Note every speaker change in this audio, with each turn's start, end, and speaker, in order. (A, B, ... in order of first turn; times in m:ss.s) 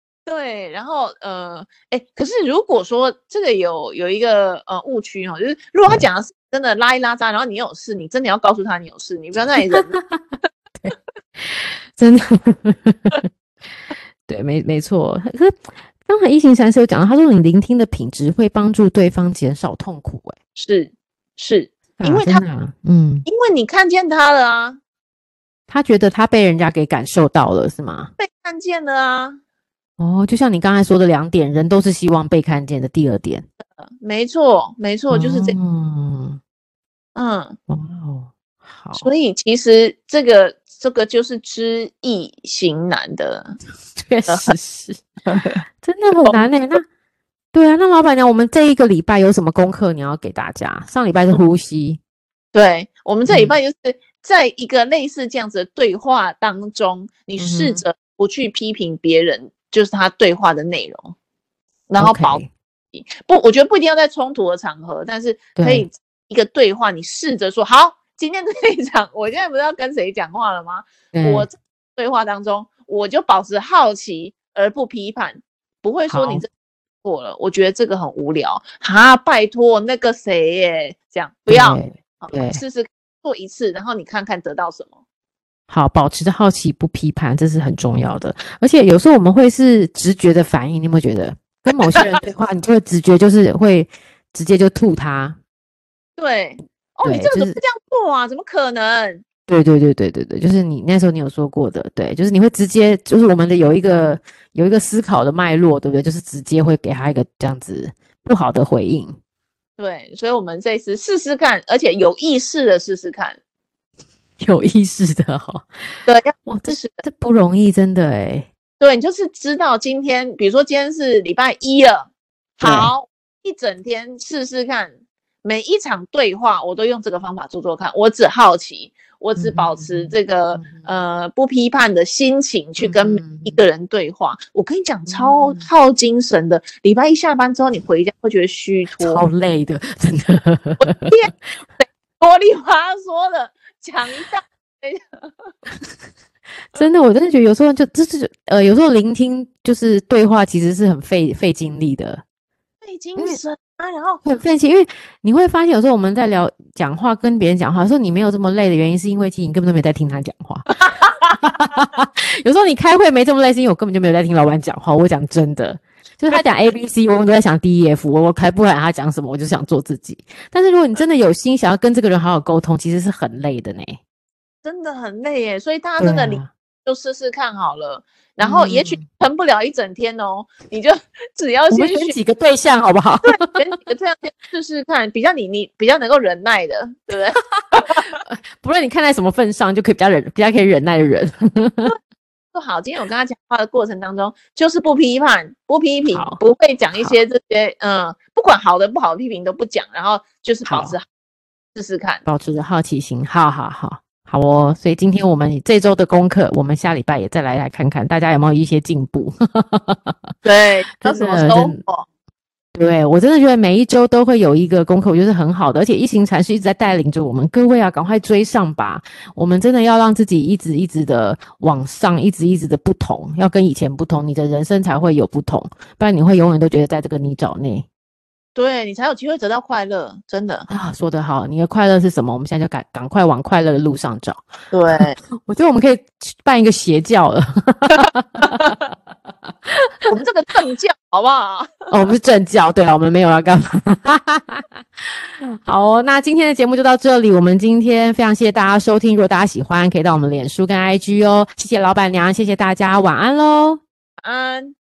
0:00.3-0:10.0 A
0:09.4-0:10.2 B
0:10.8-0:13.3 B
0:14.3-0:20.4 B
0:20.6-0:22.4 A
0:22.0-0:23.3 B
0:23.3-0:24.8 A
0:25.7-0:28.1 B
0:28.2-0:29.4 A
0:30.0-0:33.5 B
0:34.0-0:35.6 A
0:35.1-0:36.4 B
0:37.2-0:37.6 A
0:37.7-0:39.1 B
0:39.0-0:43.6 A
0:44.0-0:45.0 B
0:44.3-0:44.6 A
0:45.3-0:45.6 A
0:45.8-0:46.8 B
0:47.5-0:52.0 B
0:52.5-1:01.1 A
0:53.3-0:53.6 B
0:57.4-0:57.8 B
1:01.9-1:16.5 A
1:02.0-1:02.5 B
1:05.6-1:05.9 B
1:11.1-1:11.5 B
1:16.1-1:16.4 B
1:17.0-1:25.0 A
1:21.5-1:22.6 B
1:25.7-1:35.4 B
1:36.2-1:39.2 A
1:37.0-1:37.6 B
1:39.5-1:49.2 B
1:49.8-1:53.4 A
1:54.4-1:58.5 B
1:56.1-1:56.9 A
1:58.8-2:19.2 A
2:02.6-2:02.9 B
2:09.4-2:10.9 B
2:12.8-2:13.6 B
2:15.1-2:15.7 B
2:19.0-2:21.2 B
2:20.8-2:25.5 A
2:26.7-2:32.2 B
2:32.8-2:34.2 A
2:34.2-2:54.0 B
2:54.6-3:02.2 A
2:56.0-2:56.5 B
2:58.4-2:59.1 B
3:01.7-3:03.6 B
3:03.3-3:08.1 A
3:08.1-3:12.0 B
3:12.5-3:21.0 A
3:16.1-3:16.4 B
3:20.7-3:21.0 B
3:21.8-3:22.2 A
3:22.2-3:30.3 B
3:30.4-3:32.1 A
3:31.0-3:31.8 B
3:32.7-3:47.9 B
3:48.6-3:50.7 A
3:50.7-3:54.4 B
3:54.7-3:55.2 A
3:55.4-3:58.8 B
4:00.0-4:01.9 A
4:01.9-4:04.7 B
4:05.6-4:13.8 B
4:14.2-4:14.8 A